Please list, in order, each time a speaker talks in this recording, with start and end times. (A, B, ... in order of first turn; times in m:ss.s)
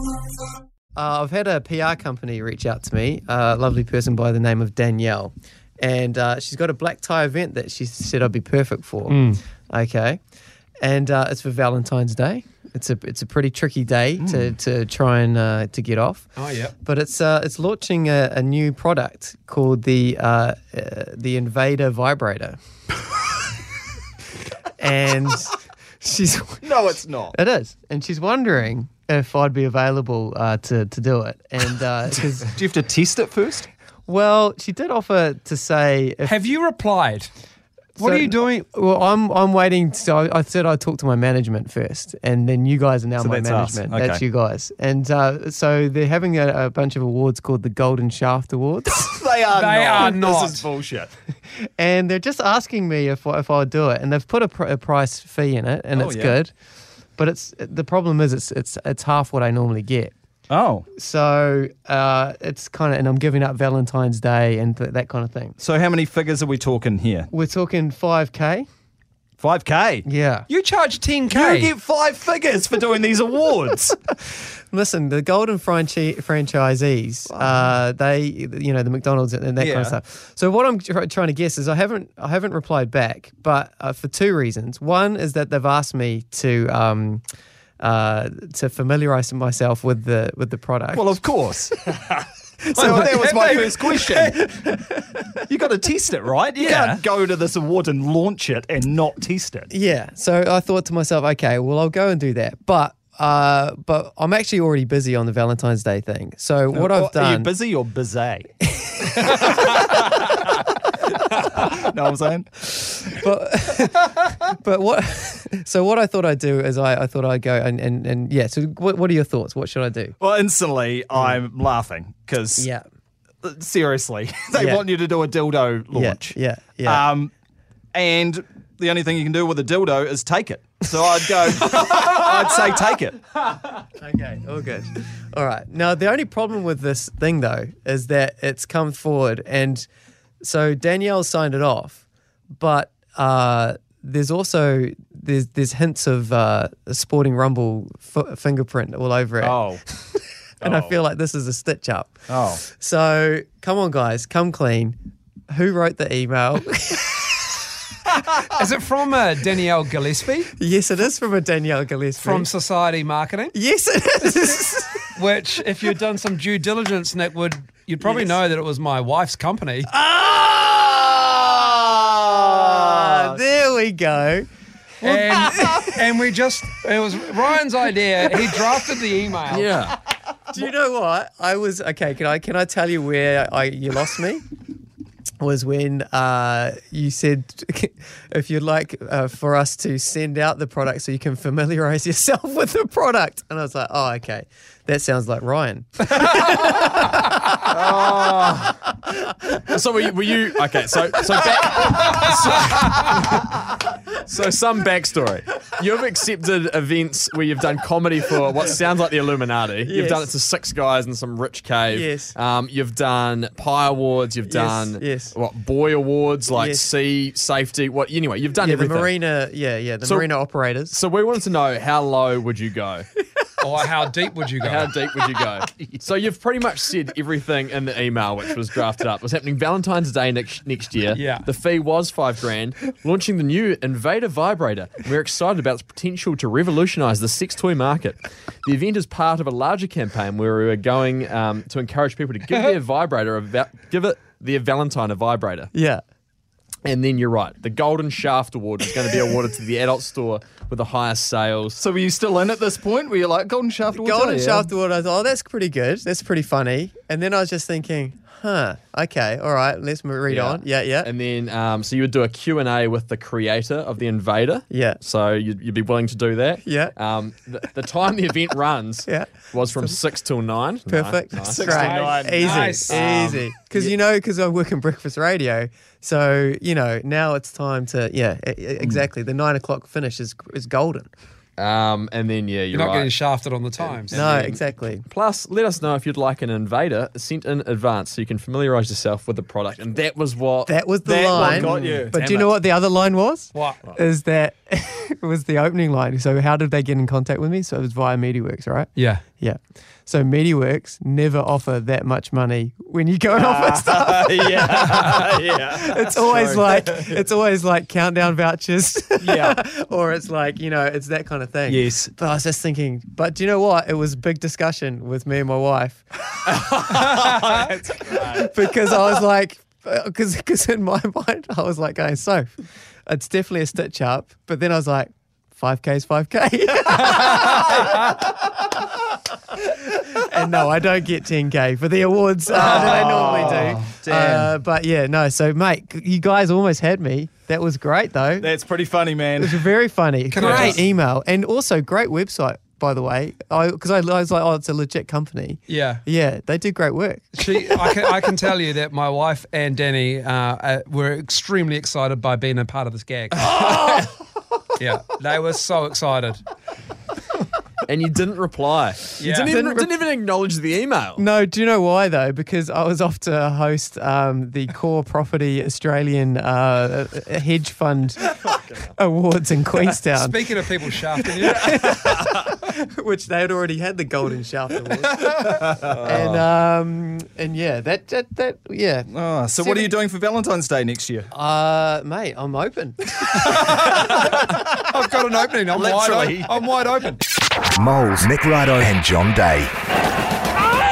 0:01.0-0:10.2 A
0:09.1-0:09.4 B
0:10.8-0:16.3 A
0:16.4-0:16.7 B
0:16.8-0:22.6 A
0:24.8-0:26.7 A
0:26.6-0:27.3 C
0:27.3-0:32.5 A
0:32.5-0:33.7 C
0:34.1-0:36.4 A
0:36.2-0:37.3 B
0:38.0-0:38.7 B
0:38.0-0:49.1 A
0:43.2-0:44.2 C
0:48.9-0:51.1 C
0:49.5-0:50.7 B
0:51.8-0:56.5 A
0:56.0-0:56.4 C
0:57.2-1:00.1 A
1:00.5-1:00.8 C
1:01.0-1:05.6 A
1:05.6-1:07.3 C
1:07.3-1:08.7 A
1:09.4-1:10.0 C
1:10.0-1:10.5 A
1:10.5-1:11.7 B
1:11.3-1:14.0 C
1:14.7-1:27.2 A
1:19.6-1:20.0 C
1:27.8-1:31.1 A
1:30.9-1:32.1 C
1:32.7-1:34.6 C
1:32.8-1:34.5 B
1:35.3-1:39.7 C
1:39.7-1:47.5 A
1:46.7-1:48.5 C
1:48.8-1:49.8 A
1:49.2-1:50.0 C
1:51.5-1:52.6 C
1:53.1-2:00.2 A
2:00.2-2:02.7 C
2:02.6-2:02.8 A
2:03.4-2:07.3 C
2:04.6-2:04.8 A
2:05.9-2:07.0 A
2:07.9-2:13.2 C
2:13.9-2:19.9 A
2:20.4-2:29.6 A
2:29.4-2:29.8 C
2:30.6-2:31.0 C
2:30.6-2:35.0 A
2:32.3-2:32.6 C
2:35.5-2:37.5 A
2:38.5-2:40.5 B
2:40.6-2:42.5 A
2:42.2-2:43.5 B
2:43.6-2:45.0 A
2:45.2-2:49.9 B
2:48.0-2:48.4 A
2:50.0-2:54.5 A
2:55.0-2:59.8 B
2:55.0-2:55.9 A
2:59.5-3:00.0 D
3:00.5-3:04.4 A
3:05.4-3:17.6 A
3:17.7-3:19.0 D
3:19.5-3:39.1 D
3:29.9-3:30.3 A
3:31.9-3:32.4 A
3:34.5-3:35.4 A
3:36.5-3:36.9 A
3:38.6-3:41.0 A
3:40.0-3:40.3 D
3:40.9-3:43.1 D
3:43.6-3:44.9 B
3:44.6-4:05.7 D
3:51.1-3:51.5 B
4:05.7-4:06.0 A
4:06.9-4:11.8 D
4:11.8-4:14.7 C
4:13.9-4:21.1 A
4:20.3-4:31.8 D
4:24.7-4:25.0 A
4:26.6-4:27.0 A
4:29.1-4:30.0 A
4:30.9-4:41.1 A
4:31.4-4:33.0 C
4:31.7-4:33.4 B
4:41.6-4:43.2 D
4:42.7-4:44.2 B
4:43.8-4:50.8 D
4:44.1-4:45.0 A
4:50.7-5:16.0 A
4:51.0-4:52.5 C
4:53.5-4:53.9 B
4:59.0-4:59.2 B
5:03.3-5:07.2 C
5:09.2-5:09.6 C
5:11.7-5:12.1 C
5:16.9-5:18.5 C
5:18.1-5:22.5 A
5:23.1-5:28.7 A
5:29.6-5:38.5 A
5:32.6-5:34.5 C
5:32.8-5:33.9 B
5:38.4-5:39.7 C
5:39.4-5:47.3 A
5:40.3-5:40.8 B
5:40.4-5:40.7 C
5:45.7-5:46.0 B
5:47.3-5:54.1 B
5:54.8-5:56.4 B
5:57.9-6:01.2 D
5:59.2-5:59.5 B
5:59.5-5:59.9 A
6:01.2-6:08.4 A
6:08.4-6:08.9 D
6:08.9-6:10.5 A
6:10.1-6:11.7 B
6:11.2-6:19.9 A
6:15.9-6:16.2 C
6:19.1-6:21.3 C
6:21.3-6:23.5 A
6:23.4-6:27.2 B
6:25.7-6:26.6 C
6:27.8-6:29.7 E